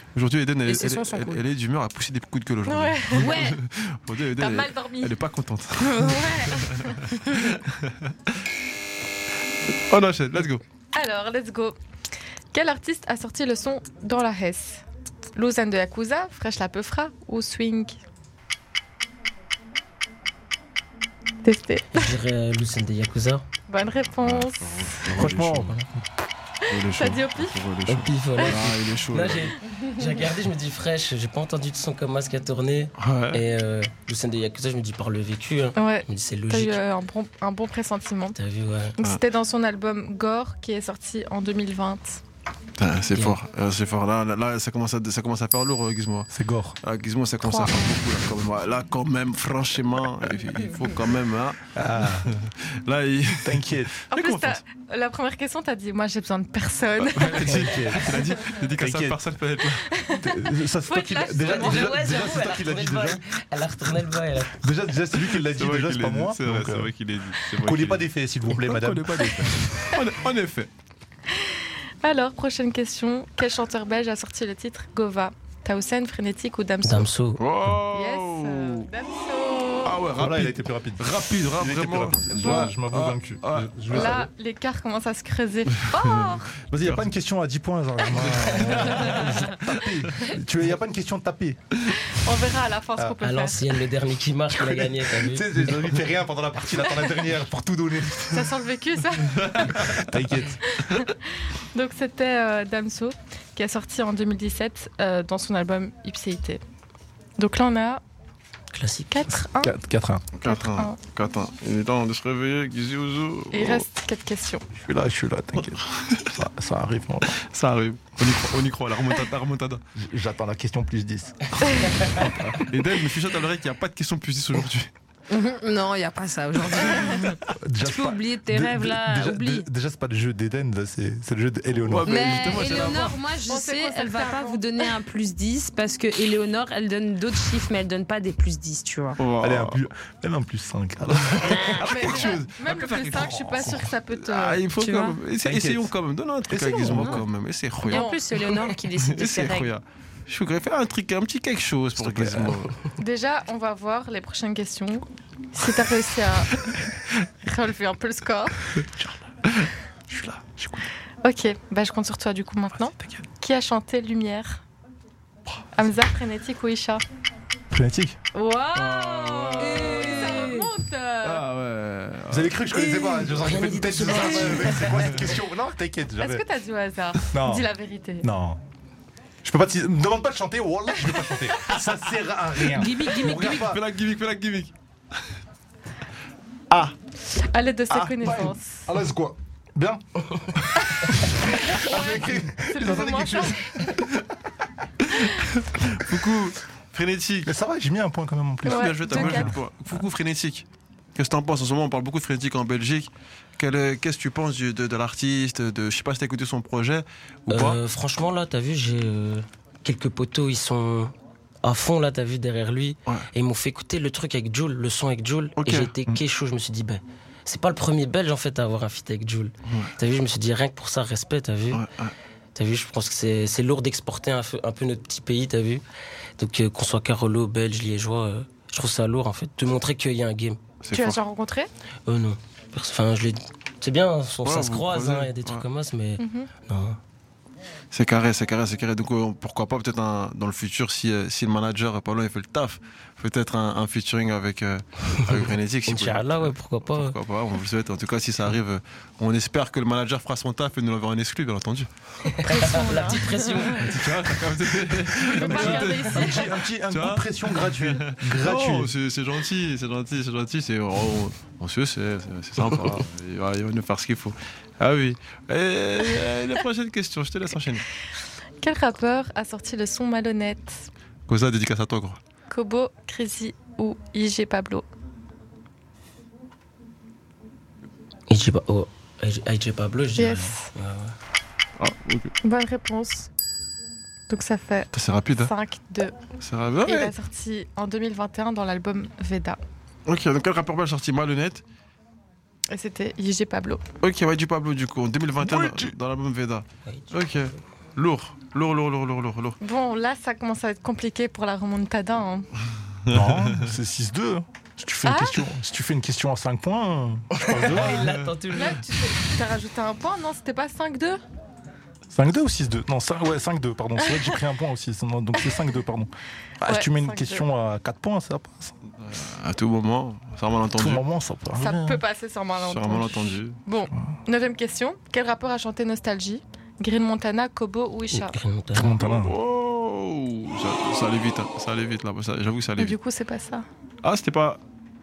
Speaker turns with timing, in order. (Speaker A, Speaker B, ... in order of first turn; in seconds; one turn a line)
Speaker A: 0.1-8.3
Speaker B: 0.7-1.4
Speaker C: 2.7-3.5
Speaker B: 3.1-3.6
Speaker C: 4.4-5.2
Speaker B: 5.8-6.7
Speaker C: 6.2-7.0
Speaker A: 9.7-10.6
Speaker C: 10.9-11.8
Speaker C: 12.5-14.8
Speaker C: 15.3-18.0
Speaker C: 21.4-22.1
Speaker D: 21.9-23.4
Speaker C: 23.7-25.0
Speaker A: 24.2-25.8
Speaker E: 25.1-26.0
Speaker C: 26.7-27.6
Speaker A: 26.7-29.5
Speaker D: 27.9-36.8
Speaker A: 33.0-33.4
Speaker C: 35.8-38.4
Speaker D: 38.4-39.0
Speaker C: 39.0-42.2
Speaker A: 42.8-46.3
Speaker D: 43.1-43.4
Speaker E: 46.3-46.8
Speaker A: 46.8-54.6
Speaker C: 47.4-47.9
Speaker E: 51.7-52.3
Speaker E: 53.4-53.9
Speaker C: 54.1-58.1
Speaker A: 57.0-59.9
Speaker E: 57.4-59.2
Speaker C: 59.8-62.1
Speaker E: 60.2-63.2
Speaker D: 61.4-64.7
Speaker E: 64.5-66.9
Speaker A: 65.3-70.7
Speaker E: 67.6-69.7
Speaker C: 71.3-77.1
Speaker D: 76.8-77.4
Speaker A: 77.4-78.9
Speaker C: 77.9-80.0
Speaker A: 79.8-84.2
Speaker E: 80.1-84.3
Speaker C: 82.4-82.7
Speaker C: 83.9-86.5
Speaker A: 85.9-87.0
Speaker E: 86.7-91.7
Speaker A: 88.1-89.8
Speaker C: 91.9-93.7
Speaker D: 93.2-95.7
Speaker E: 94.5-98.6
Speaker C: 98.3-99.9
Speaker A: 99.4-100.0
Speaker E: 99.8-100.6
Speaker C: 100.7-106.6
Speaker C: 107.4-108.0
Speaker D: 108.7-109.3
Speaker C: 109.1-109.7
Speaker E: 109.6-110.2
Speaker A: 110.3-113.9
Speaker C: 110.5-111.0
Speaker C: 113.5-114.7
Speaker E: 114.8-117.4
Speaker A: 115.6-116.3
Speaker A: 117.3-119.8
Speaker E: 120.0-121.5
Speaker C: 121.7-122.0
Speaker A: 121.7-124.9
Speaker B: 125.3-129.7
Speaker A: 126.8-127.3
Speaker E: 127.5-132.2
Speaker A: 131.8-133.2
Speaker B: 132.1-139.2
Speaker C: 132.6-132.9
Speaker C: 133.4-134.9
Speaker A: 139.2-139.8
Speaker E: 139.4-141.9
Speaker A: 141.1-148.1
Speaker B: 141.5-141.8
Speaker C: 141.8-144.7
Speaker B: 144.8-145.2
Speaker E: 145.4-145.9
Speaker E: 146.5-147.3
Speaker B: 147.8-149.7
Speaker C: 147.9-148.2
Speaker A: 149.0-152.8
Speaker E: 152.0-152.7
Speaker C: 153.0-156.7
Speaker C: 157.4-158.7
Speaker A: 159.0-159.7
Speaker E: 160.1-160.8
Speaker C: 161.2-164.6
Speaker A: 162.9-163.2
Speaker C: 165.7-167.0
Speaker E: 167.7-168.2
Speaker C: 168.3-171.4
Speaker A: 168.7-170.6
Speaker B: 169.6-170.7
Speaker A: 171.2-172.6
Speaker E: 172.3-176.4
Speaker D: 172.7-175.1
Speaker B: 174.1-174.8
Speaker A: 174.9-175.3
Speaker C: 176.2-178.3
Speaker E: 177.3-177.7
Speaker E: 178.2-178.6
Speaker E: 179.4-183.8
Speaker B: 182.7-183.7
Speaker A: 182.8-184.7
Speaker C: 187.2-188.9
Speaker A: 187.9-188.4
Speaker E: 188.2-194.1
Speaker C: 190.9-193.8
Speaker A: 195.1-197.5
Speaker E: 197.4-199.6
Speaker A: 198.7-207.8
Speaker C: 198.7-199.6
Speaker D: 207.5-221.8
Speaker A: 215.6-215.9
Speaker A: 219.7-219.9
Speaker A: 221.7-222.1
Speaker D: 222.6-225.8
Speaker D: 226.4-230.6
Speaker A: 230.8-231.2
Speaker C: 230.9-231.7
Speaker D: 232.1-237.0
Speaker A: 234.4-235.7
Speaker C: 236.2-236.5
Speaker A: 237.9-251.9
Speaker D: 245.2-247.2
Speaker D: 252.2-253.9
Speaker C: 252.4-253.8
Speaker A: 253.7-267.9
Speaker E: 254.9-258.9
Speaker C: 255.3-256.6
Speaker C: 268.6-270.9
Speaker A: 271.3-272.2
Speaker C: 272.5-274.9
Speaker D: 278.3-281.1
Speaker C: 280.2-280.7
Speaker A: 281.8-282.3
Speaker C: 282.4-283.3
Speaker C: 284.3-286.1
Speaker A: 284.9-285.5
Speaker A: 286.4-287.1
Speaker C: 286.9-289.6
Speaker A: 290.1-291.6
Speaker C: 292.7-293.8
Speaker A: 294.0-299.6
Speaker E: 295.4-295.9
Speaker D: 296.9-297.6
Speaker C: 299.6-302.5
Speaker A: 303.1-303.7
Speaker E: 303.1-308.1
Speaker C: 305.1-305.4
Speaker D: 307.3-308.9
Speaker A: 307.8-308.3
Speaker C: 308.5-311.2
Speaker E: 312.1-318.7
Speaker C: 314.1-314.3
Speaker C: 316.6-317.4
Speaker A: 319.0-321.0
Speaker E: 320.8-322.0
Speaker C: 321.5-328.4
Speaker A: 322.6-323.6
Speaker D: 328.1-329.0
Speaker E: 328.7-329.4
Speaker A: 329.0-333.0
Speaker C: 332.8-333.7
Speaker A: 334.0-334.6